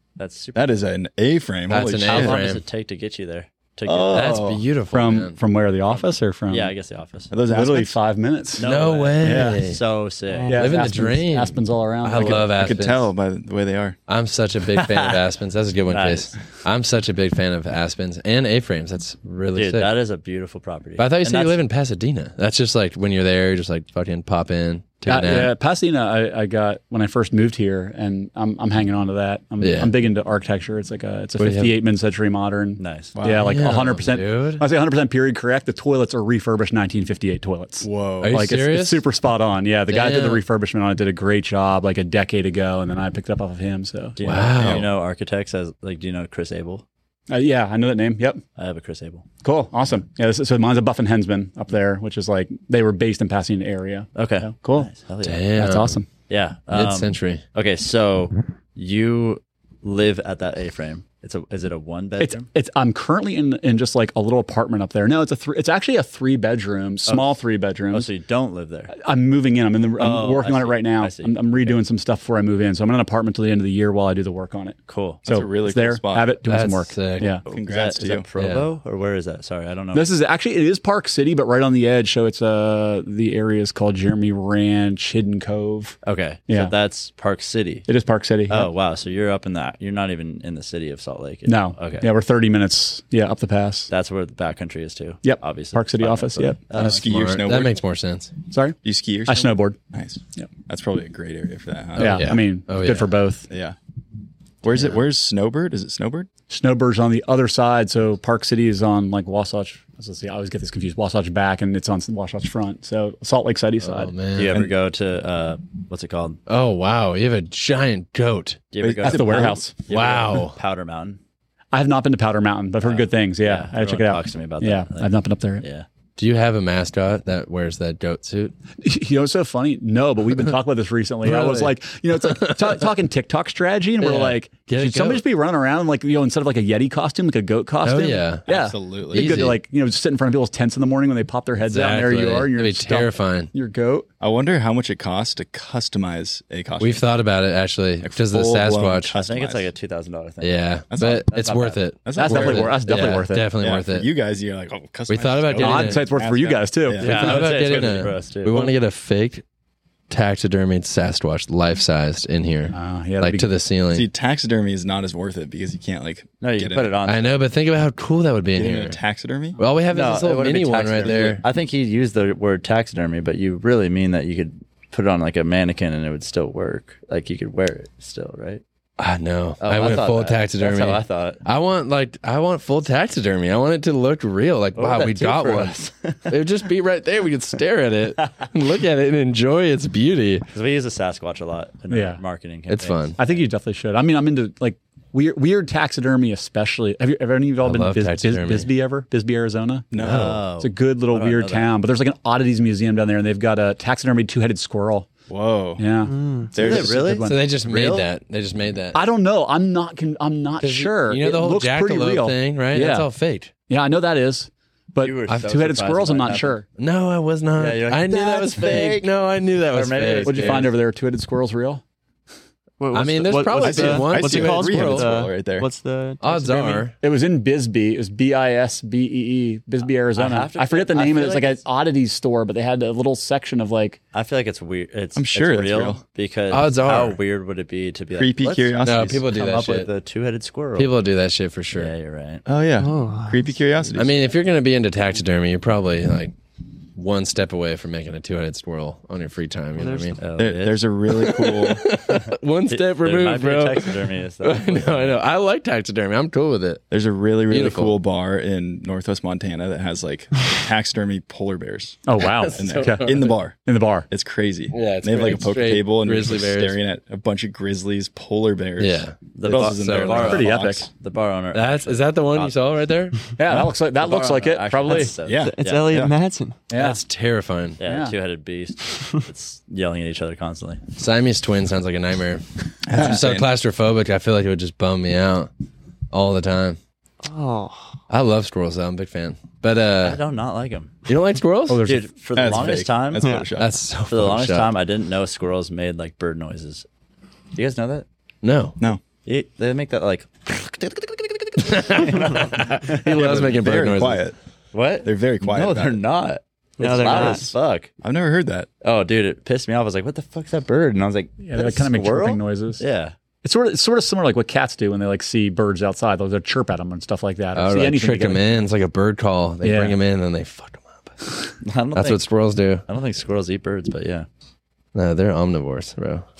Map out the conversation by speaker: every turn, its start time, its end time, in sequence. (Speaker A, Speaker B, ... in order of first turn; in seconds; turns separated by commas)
Speaker A: 0.2-0.8, Speaker B: 0.5-2.4, Speaker C: 1.7-2.6, Speaker A: 2.0-4.5, Speaker B: 3.9-4.6, Speaker C: 4.1-5.4, Speaker D: 4.9-6.7, Speaker A: 5.9-7.3, Speaker B: 7.3-8.0, Speaker D: 7.5-8.7, Speaker A: 8.6-10.7, Speaker C: 8.6-9.8, Speaker D: 9.2-9.6, Speaker E: 10.3-10.7, Speaker D: 10.5-12.5, Speaker C: 10.5-13.1, Speaker B: 12.2-14.0, Speaker C: 14.1-19.9, Speaker A: 14.7-15.2, Speaker A: 15.9-16.3, Speaker A: 19.5-21.6, Speaker C: 21.0-25.5, Speaker D: 25.0-44.1, Speaker C: 29.6-29.9, Speaker C: 31.4-31.8, Speaker A: 32.8-33.1, Speaker B: 33.1-33.6, Speaker C: 33.3-34.6, Speaker B: 37.8-38.5, Speaker C: 38.2-39.0, Speaker C: 39.9-40.4, Speaker A: 44.2-46.8, Speaker C: 44.2-44.9, Speaker B: 44.6-44.9, Speaker D: 47.3-48.4, Speaker A: 48.6-49.2, Speaker D: 49.4-54.9, Speaker A: 54.1-55.5, Speaker C: 55.2-56.0, Speaker D: 55.5-56.1, Speaker A: 56.3-62.5, Speaker C: 56.7-57.4, Speaker D: 62.2-68.0, Speaker A: 67.1-67.4, Speaker A: 67.9-68.9, Speaker D: 69.0-77.4, Speaker A: 70.0-71.8, Speaker A: 74.9-75.2, Speaker B: 75.2-76.4, Speaker C: 76.5-77.4, Speaker A: 77.5-80.1, Speaker B: 77.5-78.2, Speaker C: 78.3-78.7, Speaker D: 79.9-86.0, Speaker A: 86.0-87.9, Speaker D: 86.5-86.7, Speaker D: 87.9-88.7, Speaker A: 88.5-92.1, Speaker D: 91.5-93.9, Speaker A: 93.9-97.2, Speaker D: 95.2-96.9, Speaker B: 96.7-97.8, Speaker C: 96.8-98.3, Speaker D: 98.5-99.8, Speaker B: 98.8-102.3, Speaker C: 102.0-103.1, Speaker D: 102.0-103.5, Speaker B: 103.5-103.8, Speaker B: 104.6-106.3, Speaker D: 106.5-114.1, Speaker C: 113.8-114.6, Speaker A: 114.3-116.4, Speaker C: 116.5-118.6, Speaker A: 118.7-121.2, Speaker B: 118.8-119.6, Speaker D: 119.0-119.7, Speaker C: 119.9-120.6, Speaker D: 121.7-125.6, Speaker A: 122.8-125.8, Speaker C: 126.2-128.5, Speaker D: 128.8-144.1, Speaker C: 131.2-132.9, Speaker C: 134.0-135.2, Speaker C: 137.8-138.4, Speaker B: 138.5-139.5, Speaker C: 139.1-139.6, Speaker C: 141.6-143.5, Speaker B: 144.2-147.1, Speaker C: 146.8-149.1, Speaker B: 148.0-149.7, Speaker A: 149.2-150.6, Speaker C: 150.4-154.1, Speaker B: 150.9-151.4, Speaker A: 151.3-151.8, Speaker B: 152.0-153.1, Speaker D: 152.1-153.5, Speaker B: 153.6-157.1, Speaker C: 155.1-156.0, Speaker D: 155.6-157.4, Speaker A: 157.0-158.7, Speaker C: 157.0-159.4, Speaker C: 160.1-164.1, Speaker D: 162.7-163.5, Speaker B: 163.9-166.9, Speaker A: 166.4-167.4, Speaker C: 167.0-169.0, Speaker B: 168.6-169.6, Speaker C: 169.6-171.4, Speaker A: 169.9-178.6, Speaker B: 171.0-171.3, Speaker C: 179.0-190.4, Speaker A: 179.6-181.4, Speaker A: 184.8-186.4, Speaker A: 190.5-193.3, Speaker D: 191.9-192.2, Speaker C: 192.7-193.2, Speaker D: 193.2-199.9, Speaker C: 197.6-198.7, Speaker B: 199.9-200.4, Speaker A: 200.0-201.7, Speaker C: 200.0-200.4, Speaker D: 200.6-205.1, Speaker B: 205.3-205.8, Speaker D: 205.8-207.4, Speaker E: 206.1-206.5, Speaker B: 206.5-207.1, Speaker A: 206.6-208.1, Speaker C: 207.2-209.0, Speaker D: 208.9-213.1, Speaker C: 210.6-213.5, Speaker D: 213.7-216.6, Speaker A: 215.0-216.6, Speaker C: 216.8-220.7, Speaker A: 217.6-219.1, Speaker A: 219.7-220.7, Speaker D: 220.2-221.8, Speaker E: 222.8-226.9, Speaker C: 222.9-225.1, Speaker B: 223.6-225.7, Speaker C: 226.2-226.9, Speaker D: 227.0-234.0, Speaker A: 230.1-231.6, Speaker A: 234.1-240.9, Speaker B: 235.1-236.0, Speaker C: 236.5-237.2, Speaker B: 238.2-239.2, Speaker C: 238.8-239.9, Speaker C: 240.8-241.9, Speaker A: 241.7-242.4, Speaker B: 242.4-244.1, Speaker E: 242.8-243.5, Speaker C: 243.9-246.3, Speaker C: 246.9-250.2, Speaker E: 249.8-250.2, Speaker A: 250.2-250.9, Speaker B: 250.4-251.9, Speaker C: 251.1-256.8, Speaker A: 252.7-255.2, Speaker B: 256.9-270.9, Speaker C: 257.5-257.9, Speaker D: 262.1-264.1, Speaker C: 262.2-263.4, Speaker C: 264.7-266.8, Speaker C: 268.8-270.5, Speaker A: 269.3-272.6, Speaker D: 270.2-270.9, Speaker C: 271.5-273.2, Speaker D: 273.4-275.1, Speaker A: 274.0-276.0, Speaker B: 275.2-276.1, Speaker E: 275.4-276.6, Speaker D: 276.7-277.0, Speaker C: 276.7-277.8, Speaker A: 277.8-280.8, Speaker D: 277.8-278.1, Speaker C: 280.9-285.5, Speaker B: 282.9-283.5, Speaker C: 286.1-286.8, Speaker E: 287.2-288.0, Speaker C: 288.1-290.2, Speaker A: 290.0-290.9, Speaker C: 291.1-291.9, Speaker D: 291.7-292.0, Speaker A: 291.8-293.3, Speaker B: 292.3-293.7, Speaker E: 293.2-293.5, Speaker C: 293.6-294.7, Speaker A: 294.1-296.9, Speaker A: 297.5-298.1, Speaker C: 298.4-298.8, Speaker A: 299.2-303.4, Speaker C: 301.6-304.2, Speaker B: 303.1-304.3, Speaker A: 304.7-307.9, Speaker B: 305.0-306.0, Speaker E: 306.8-307.5, Speaker B: 307.1-307.4, Speaker B: 308.0-308.7, Speaker A: 308.8-313.1, Speaker D: 311.4-312.8, Speaker D: 313.4-318.4, Speaker C: 317.5-321.2, Speaker D: 319.6-320.0, Speaker A: 321.6-322.3, Speaker C: 321.9-322.8, Speaker A: 322.9-324.3, Speaker C: 324.9-326.2